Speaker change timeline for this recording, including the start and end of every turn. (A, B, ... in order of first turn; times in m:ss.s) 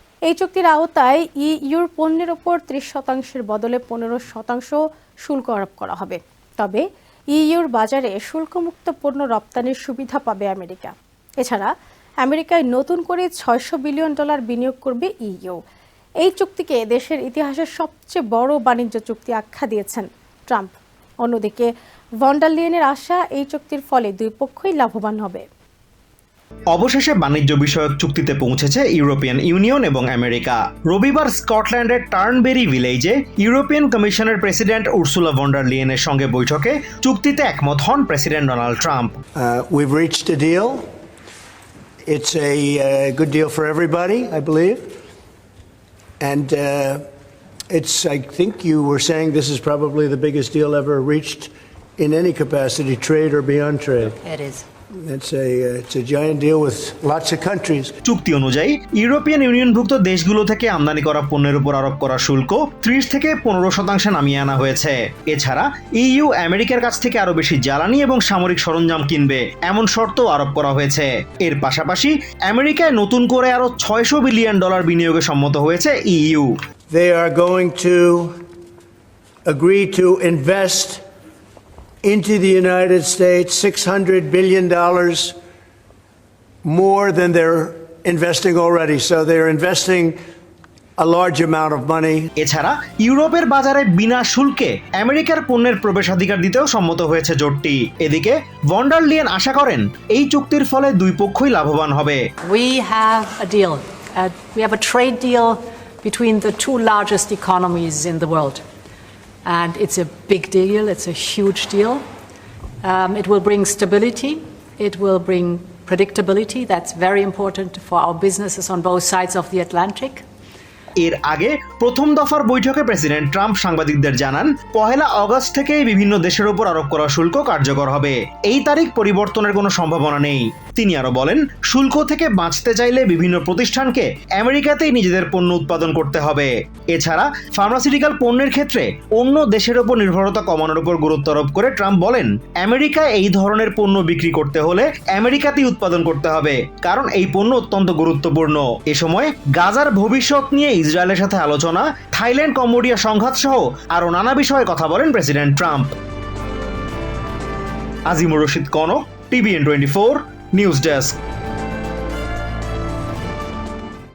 0:00.3-0:11.7 A
0:12.2-0:15.6 A
0:16.2-0:25.4 A
0:26.7-0:39.1 B
0:39.4-0:40.9 C
0:42.1-0:44.9 C
0:46.2-0:47.0 C
0:47.7-0:54.2 C
0:54.2-0:54.6 D
0:54.9-0:57.9 C
0:58.1-1:16.6 B
1:16.9-1:18.3 C
1:19.5-1:21.0 C
1:22.0-1:25.4 C
1:26.6-1:30.2 C
1:31.0-1:32.3 C
1:32.4-1:42.2 B
1:42.4-1:48.6 D
1:49.4-1:52.0 D
1:52.8-2:00.2 D
2:01.0-2:35.9 B
2:38.1-2:41.2 B